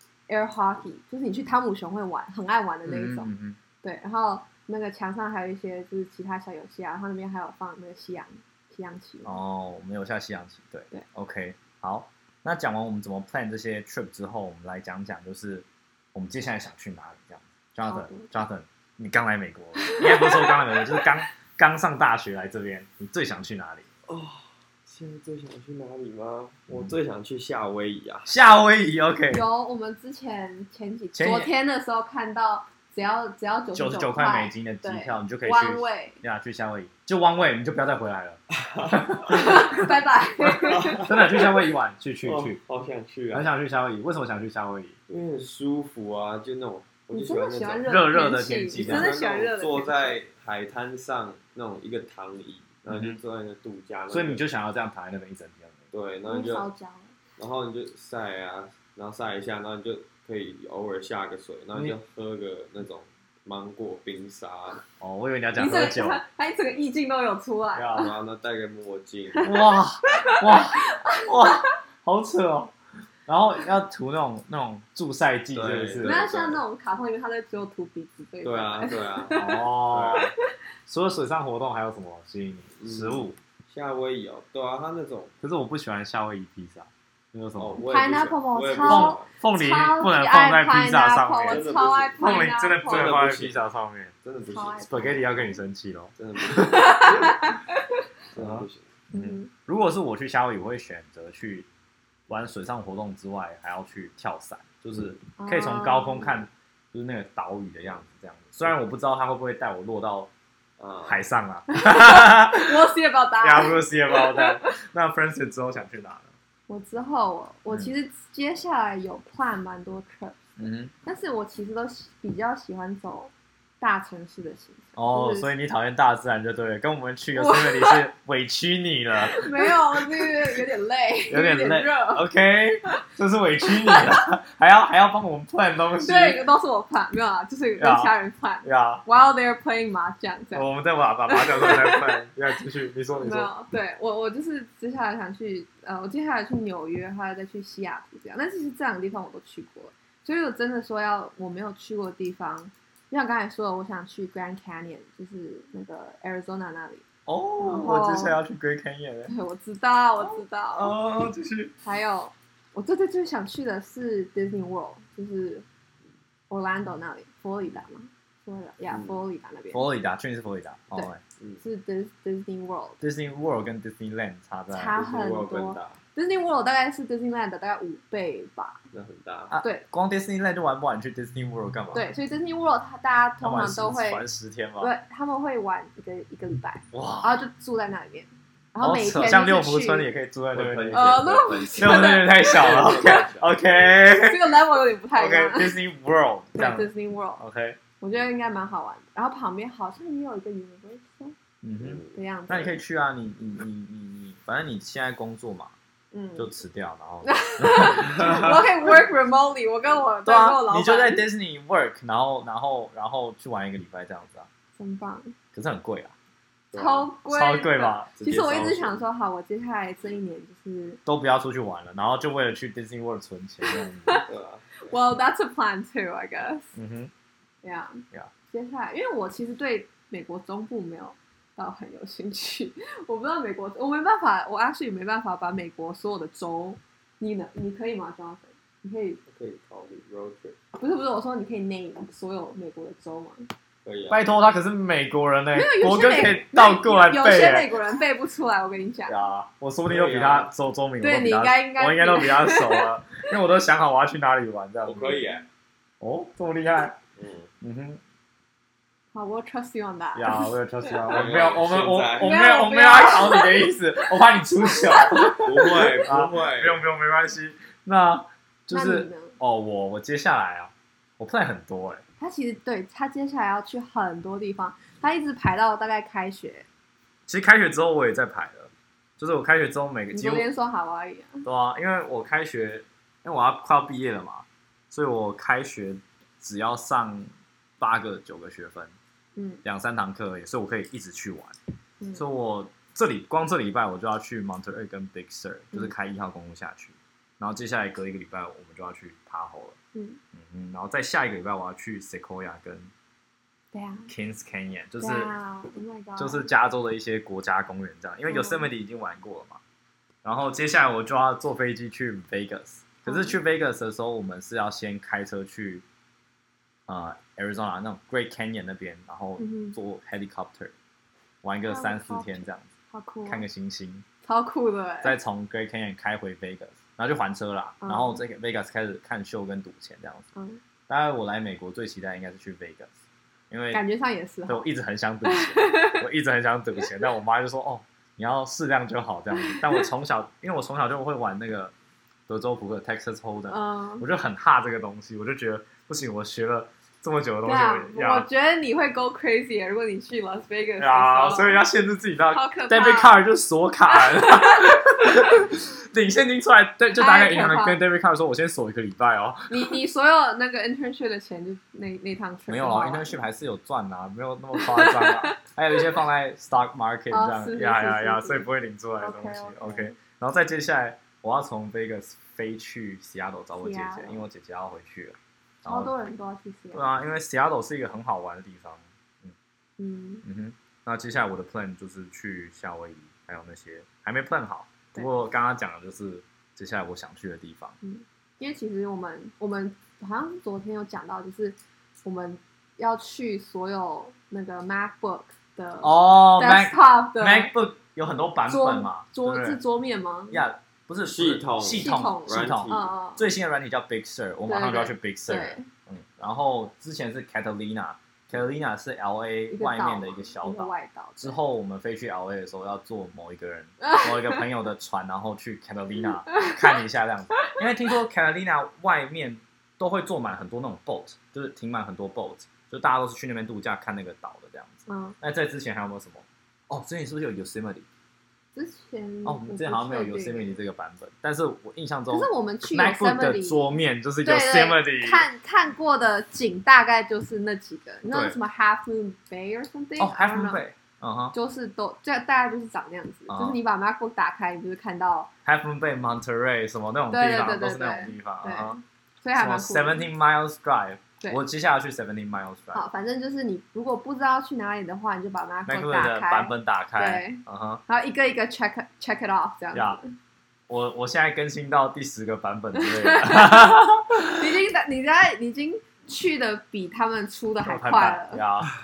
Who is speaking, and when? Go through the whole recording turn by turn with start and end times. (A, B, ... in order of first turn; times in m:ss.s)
0:00.3-0:03.3 A
0:02.8-0:03.6 B
0:03.8-0:09.4 A
0:09.2-0:23.9 B
0:17.8-0:18.3 A
0:19.8-0:20.6 A
0:24.1-0:28.3 C
0:26.7-0:26.9 B
0:28.2-0:29.4 B
0:29.3-0:36.2 A
0:31.1-0:31.5 B
0:33.7-0:38.4 B
0:38.5-0:39.3 C
0:38.9-0:39.9 B
0:39.2-0:41.5 A
0:40.6-0:41.4 C
0:41.0-0:42.6 B
0:42.2-0:43.5 C
0:43.3-0:45.0 B
0:45.1-0:47.8 C
0:47.1-0:50.2 A
0:47.8-0:49.2 B
0:48.7-0:54.4 C
0:52.9-0:53.2 B
0:54.1-0:55.9 B
0:55.9-0:56.7 C
0:56.2-0:57.1 A
0:57.4-1:04.8 C
1:05.0-1:06.2 B
1:05.6-1:08.1 A
1:07.7-1:08.1 B
1:08.0-1:09.5 C
1:09.4-1:12.7 B
1:10.2-1:11.7 A
1:13.3-1:16.3 B
1:15.5-1:16.6 C
1:16.0-1:20.3 A
1:18.4-1:19.4 C
1:19.3-1:20.3 B
1:19.9-1:20.3 C
1:20.9-1:23.4 B
1:22.8-1:25.3 C
1:25.4-1:27.8 B
1:27.6-1:29.3 C
1:27.8-1:33.1 A
1:28.8-1:31.6 B
1:31.4-1:32.3 C
1:32.2-1:34.1 B
1:32.8-1:33.7 C
1:34.2-1:35.5 C
1:34.5-1:35.3 A
1:34.8-1:37.3 B
1:36.2-1:37.4 C
1:36.4-1:37.8 A
1:38.3-1:38.9 C
1:38.4-1:41.7 B
1:39.1-1:39.5 A
1:42.3-1:50.3 B
1:45.4-1:46.4 A
1:50.8-1:51.2 C
1:51.0-1:52.9 B
1:51.7-1:54.8 A
1:53.4-1:56.3 B
1:56.7-2:00.5 A
2:00.6-2:00.9 B
2:01.0-2:05.5 A
2:05.0-2:10.3 B
2:07.3-2:08.1 A
2:09.2-2:12.2 A
2:11.3-2:16.4 B
2:16.0-2:20.7 A
2:17.8-2:19.0 B
2:20.5-2:23.5 B
2:21.3-2:22.3 A
2:23.2-2:37.0 A
2:37.3-2:39.3 B
2:37.6-2:38.4 A
2:39.3-2:41.0 A
2:40.2-2:41.7 B
2:41.8-2:45.6 A
2:46.5-2:49.9 A
2:48.9-2:49.2 C
2:49.7-2:51.2 B
2:50.9-2:53.0 A
2:53.0-2:55.0 B
2:54.7-2:58.8 A
2:54.9-2:56.0 C
2:58.9-2:59.5 C
2:59.5-3:02.1 B
2:59.6-2:59.8 A
3:01.9-3:04.2 A
3:03.4-3:04.9 B
3:04.8-3:10.1 A
3:06.9-3:07.4 B
3:08.8-3:14.6 B
3:10.5-3:13.5 C
3:10.9-3:13.3 A
3:14.2-3:15.8 A
3:15.1-3:17.8 B
3:16.5-3:17.4 A
3:18.0-3:21.4 A
3:21.6-3:25.7 B
3:21.8-3:22.2 C
3:22.1-3:22.8 A
3:26.1-3:26.5 A
3:26.4-3:28.9 B
3:27.2-3:31.2 A
3:30.2-3:34.5 B
3:34.8-3:35.4 A
3:35.5-3:36.1 B
3:36.7-3:37.1 C
3:36.7-3:41.0 A
3:37.3-3:39.0 B
3:38.2-3:38.8 C
3:41.0-3:44.2 B
3:43.6-3:44.3 A
3:44.2-3:44.9 C
3:44.8-3:46.7 A
3:46.7-3:47.1 B
3:47.6-3:59.2 A
3:59.3-4:00.6 C
4:00.7-4:03.5 A
4:03.8-4:04.3 C
4:04.1-4:07.7 B
4:05.5-4:09.2 A
4:09.1-4:15.2 B
4:09.8-4:10.5 C
4:11.0-4:13.3 A
4:14.8-4:15.5 C
4:16.0-4:17.0 B
4:17.2-4:17.5 C
4:17.6-4:18.0 B
4:19.1-4:21.3 A
4:20.2-4:32.0 B
4:21.1-4:22.4 C
4:22.2-4:23.8 A
4:24.8-4:25.4 A
4:25.3-4:26.8 C
4:28.7-4:29.4 A
4:32.2-4:36.7 A
4:37.3-4:40.5 B
4:40.1-4:41.5 A
4:41.4-4:49.0 B
4:49.4-4:49.6 A
4:49.6-4:51.6 B
4:52.0-4:52.2 A
4:52.1-4:59.8 B
4:59.9-5:00.2 A
5:00.3-5:02.9 B
5:03.7-5:04.1 A
5:04.1-5:05.3 B
5:05.0-5:06.5 A
5:06.2-5:09.6 B
5:08.3-5:08.7 A
5:10.2-5:15.8 B
5:13.0-5:13.4 A
5:16.9-5:20.7 B
5:19.4-5:19.8 A
5:21.4-5:22.7 B
5:21.6-5:23.4 A
5:23.2-5:24.0 B
5:24.2-5:25.2 A
5:25.0-5:30.3 B
5:27.8-5:28.2 A
5:30.3-5:30.6 A
5:30.9-5:32.9 B
5:33.5-5:33.8 B
5:33.7-5:34.7 A
5:34.5-5:41.7 B
5:35.2-5:36.0 A
5:39.5-5:39.8 A
5:42.3-5:48.3 B
5:43.5-5:44.1 A
5:47.4-5:51.6 A
5:50.8-5:59.8 B
5:52.3-5:53.2 A
5:53.9-5:54.8 A
5:56.9-5:57.8 A
5:59.5-6:03.2 A
6:02.5-6:15.9 B
6:04.5-6:05.8 A
6:07.1-6:09.9 A
6:13.6-6:14.2 A
6:15.6-6:17.0 A
6:16.7-6:19.3 B
6:19.8-6:20.2 A
6:20.2-6:27.8 B
6:27.8-6:37.5 A
6:35.8-6:39.6 B
6:38.5-6:40.4 A
6:40.3-7:07.9 B
6:41.0-6:42.9 C
6:41.6-6:43.3 A
6:44.5-6:45.7 A
6:49.5-6:51.4 A
6:53.8-6:54.4 A
6:56.4-6:56.7 A
7:04.9-7:05.2 A
7:08.5-7:10.6 A
7:09.2-7:15.3 B
7:12.1-7:20.6 A
7:18.0-7:18.4 B
7:20.0-7:21.3 B
7:21.3-7:25.3 A
7:23.3-7:23.6 B
7:25.4-7:28.8 B
7:27.1-7:30.1 A
7:29.3-7:32.8 B
7:32.7-7:40.1 A
7:35.6-7:37.8 B
7:39.7-7:40.0 B
7:40.7-7:44.5 B
7:42.7-7:48.4 A
7:47.6-7:48.7 B